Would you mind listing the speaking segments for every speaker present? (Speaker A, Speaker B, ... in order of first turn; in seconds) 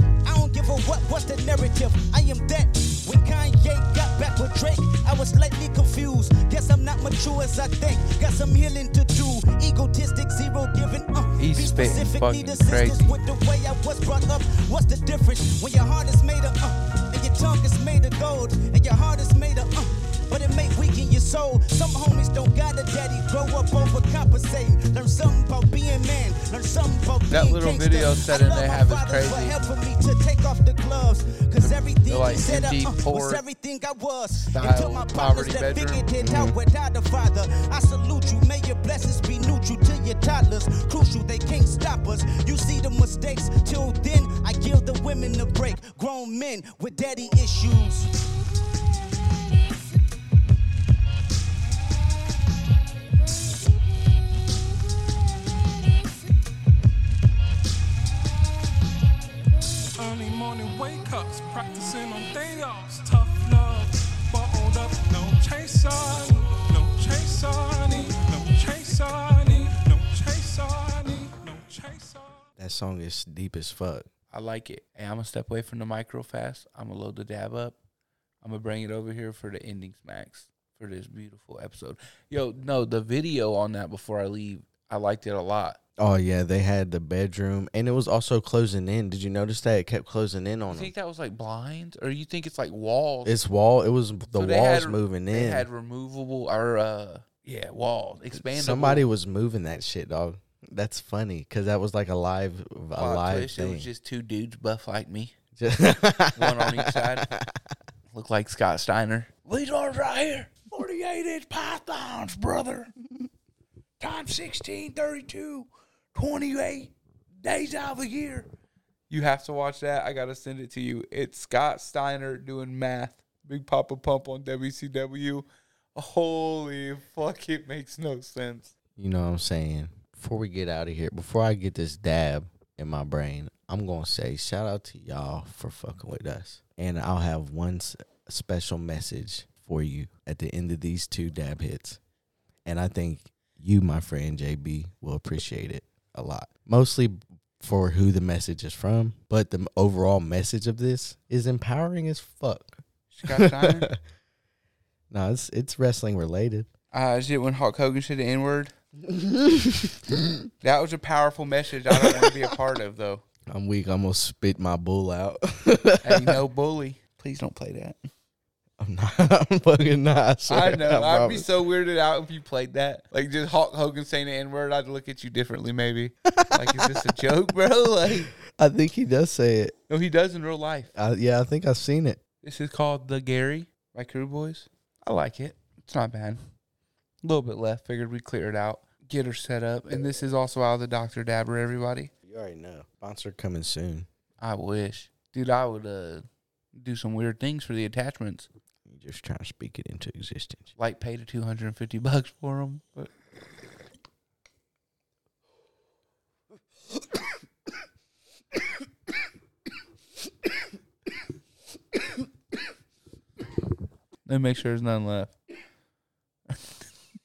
Speaker A: 0.2-48.1
Speaker B: 11.4-13.2, 27.3-29.6, 31.6-33.4, 34.4-36.5, 74.3-77.8, 78.4-85.8, 90.7-93.4, 94.3-99.1, 103.0-105.3, 106.4-107.3, 108.1-112.9, 114.0-118.5, 119.1-128.7, 153.1-153.9, 156.9-158.7, 160.6-163.2, 166.0-168.1, 170.5-178.3, 179.9-180.9, 182.4-186.4, 187.2-192.1, 194.4-198.5, 200.8-203.1, 214.3-215.3
Speaker C: 60.0-72.4
Speaker D: 72.6-74.1, 86.0-90.9, 93.2-95.7, 98.3-103.9, 105.6-107.6, 129.0-142.0, 142.7-154.0, 155.1-156.7, 159.0-160.4, 161.9-162.4, 163.5-166.4, 168.8-171.5, 176.3-177.1, 178.5-179.8, 180.9-182.2, 192.2-194.1, 198.9-200.7